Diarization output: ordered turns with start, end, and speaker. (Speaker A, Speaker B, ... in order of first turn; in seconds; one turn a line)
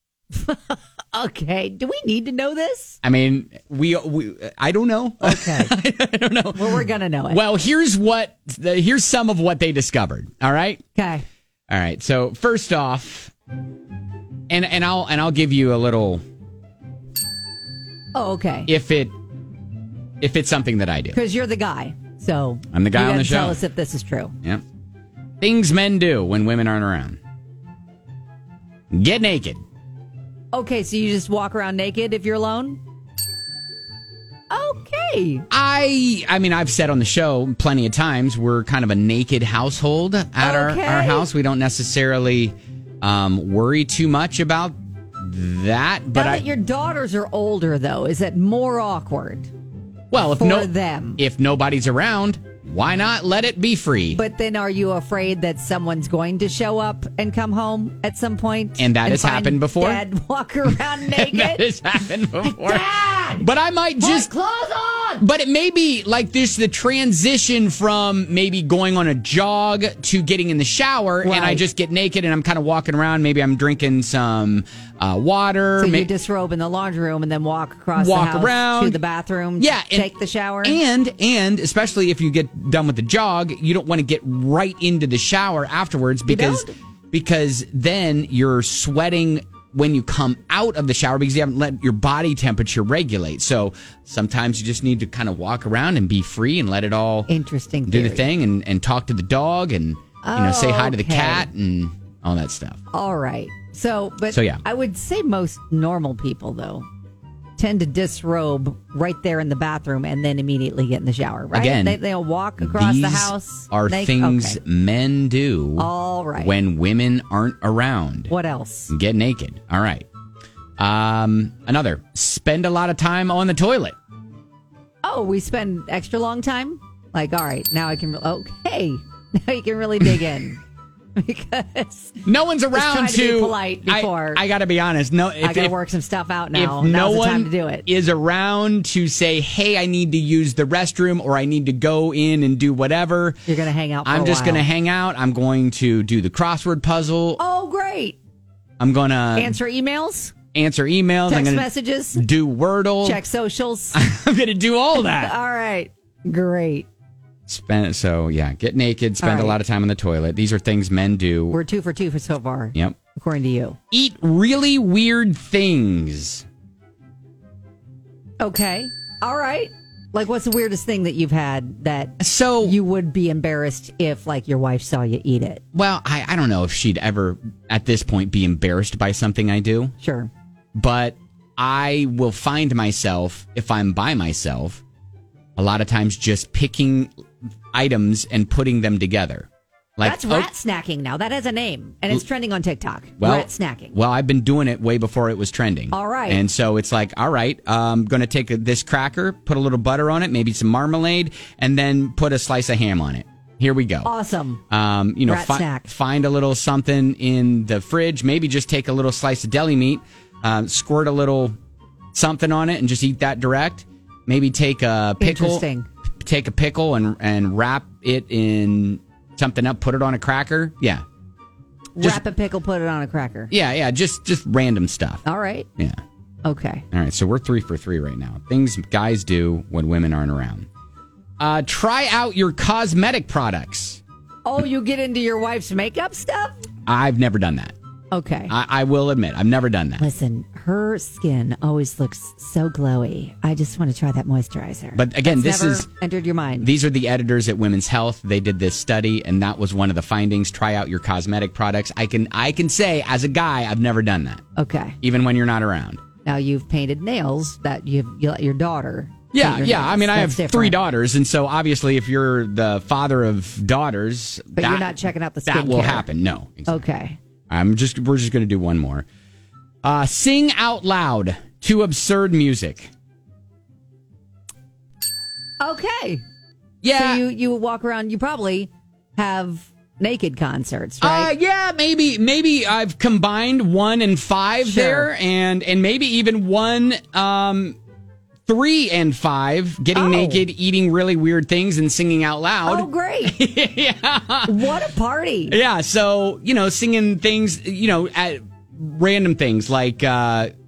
Speaker A: 0.3-3.0
Speaker B: 3.0-10.8
Speaker A: 5.2-5.7
Speaker A: 6.5-7.4
Speaker A: 10.9-11.2
Speaker B: 11.7-13.3
Speaker B: 14.5-16.2
Speaker A: 18.1-18.7
Speaker B: 18.7-19.1
Speaker B: 20.2-21.2
Speaker A: 21.1-24.3
Speaker B: 22.7-23.6
Speaker B: 25.4-27.2
Speaker B: 28.9-29.6
Speaker A: 30.5-32.8
Speaker A: 34.5-35.4
Speaker B: 35.5-46.4
Speaker A: 40.4-41.3
Speaker A: 46.1-49.5
Speaker B: 50.1-54.2
Speaker A: 50.2-51.2
Speaker A: 54.1-61.7
Speaker B: 58.8-60.0
Speaker B: 60.7-64.3
Speaker A: 62.4-63.5
Speaker A: 64.0-65.2
Speaker B: 65.2-76.1
Speaker A: 71.2-71.7
Speaker A: 75.8-80.8
Speaker B: 78.0-79.0
Speaker B: 79.6-80.1
Speaker B: 80.6-97.3
Speaker A: 86.3-86.7
Speaker A: 97.3-98.2
Speaker B: 97.9-102.8
Speaker A: 100.2-101.5
Speaker A: 102.9-106.8
Speaker B: 104.3-104.6
Speaker A: 107.6-114.6
Speaker B: 111.5-112.0
Speaker B: 112.6-118.3
Speaker A: 115.8-116.5
Speaker A: 118.3-118.9
Speaker B: 118.9-120.1
Speaker B: 120.8-123.9
Speaker A: 125.0-130.6
Speaker A: 131.2-132.2
Speaker B: 132.2-135.7
Speaker A: 132.7-134.4
Speaker A: 135.4-137.8
Speaker B: 136.5-143.4
Speaker A: 143.5-144.7
Speaker B: 144.0-147.4
Speaker A: 147.4-148.2
Speaker B: 148.8-149.6
Speaker A: 149.3-150.4
Speaker B: 150.5-153.2
Speaker A: 151.2-152.2
Speaker A: 153.0-154.0
Speaker B: 153.9-155.3
Speaker A: 154.9-156.9
Speaker B: 157.5-161.6
Speaker A: 159.2-159.6
Speaker A: 161.5-163.8
Speaker B: 163.9-166.4
Speaker A: 168.4-175.6
Speaker B: 172.2-172.7
Speaker B: 175.7-179.9
Speaker A: 180.0-180.3
Speaker B: 180.7-184.8
Speaker B: 185.6-187.1
Speaker B: 187.7-190.5
Speaker A: 190.0-193.9
Speaker B: 193.2-204.1
Speaker A: 195.9-196.4
Speaker A: 204.0-204.6
Speaker B: 204.7-211.5
Speaker A: 205.2-205.9
Speaker B: 212.1-215.6
Speaker A: 215.2-215.9
Speaker B: 216.2-221.0
Speaker A: 221.9-223.5
Speaker B: 223.5-225.2
Speaker A: 225.2-225.7
Speaker A: 226.4-226.8
Speaker B: 226.9-230.7
Speaker B: 231.4-234.0
Speaker A: 234.4-236.6
Speaker B: 236.8-237.7
Speaker A: 238.1-238.5
Speaker B: 238.5-240.0
Speaker A: 240.0-246.7
Speaker B: 244.9-245.9
Speaker B: 246.6-254.4
Speaker A: 254.6-255.0
Speaker B: 255.0-256.1
Speaker A: 256.2-260.8
Speaker B: 259.3-266.9
Speaker A: 264.6-266.1
Speaker A: 266.7-267.2
Speaker B: 267.5-269.0
Speaker B: 269.8-272.9
Speaker A: 275.6-276.2
Speaker B: 276.8-277.2
Speaker A: 276.9-281.3
Speaker B: 281.0-287.8
Speaker A: 284.6-285.1
Speaker B: 288.5-294.6
Speaker A: 289.9-290.4
Speaker A: 292.6-293.4
Speaker A: 294.5-295.6
Speaker B: 295.5-300.5